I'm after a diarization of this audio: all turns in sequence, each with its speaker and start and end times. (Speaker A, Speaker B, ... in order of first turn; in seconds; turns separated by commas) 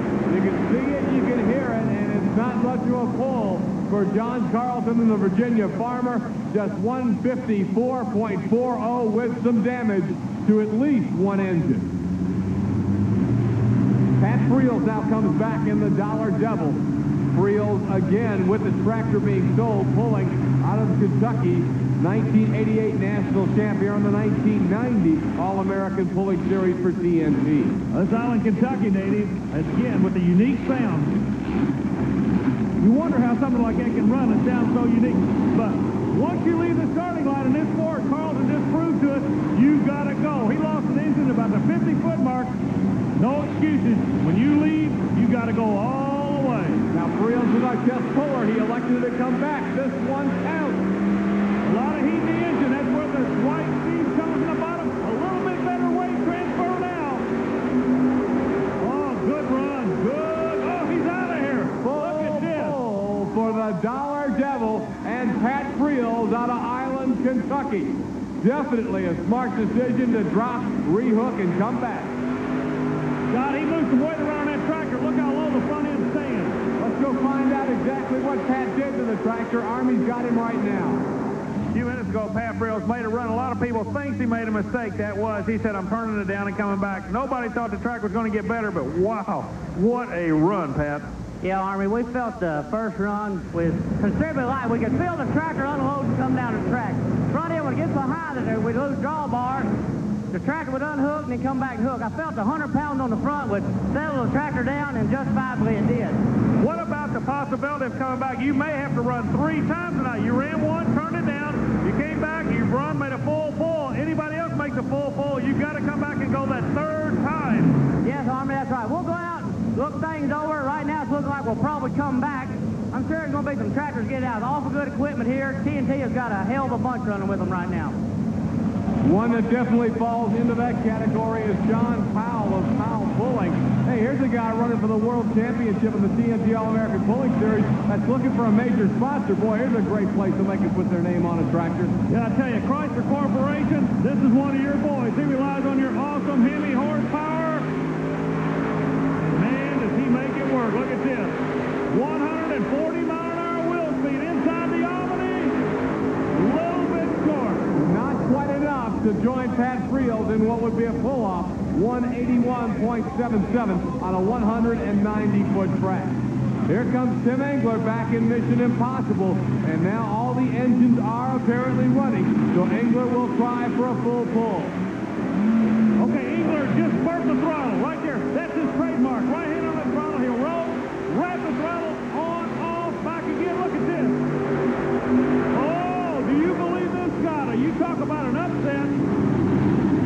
Speaker A: 0.3-11.9, Speaker A: 14.2-16.8, Speaker A: 17.3-27.8, Speaker B: 27.9-31.2, Speaker B: 32.8-42.6, Speaker B: 43.1-46.8, Speaker A: 46.9-50.9, Speaker B: 51.6-57.3, Speaker B: 58.8-62.8, Speaker A: 61.8-72.1, Speaker B: 73.3-76.6, Speaker A: 76.8-81.0, Speaker B: 81.7-91.1, Speaker C: 91.4-99.7, Speaker C: 100.3-106.2, Speaker B: 106.6-117.8, Speaker C: 118.0-128.0, Speaker A: 129.0-141.9, Speaker B: 142.1-147.7, Speaker B: 149.2-155.6, Speaker B: 156.3-157.7, Speaker A: 157.7-166.2, Speaker A: 166.7-174.8, Speaker B: 176.0-184.2, Speaker B: 185.5-189.0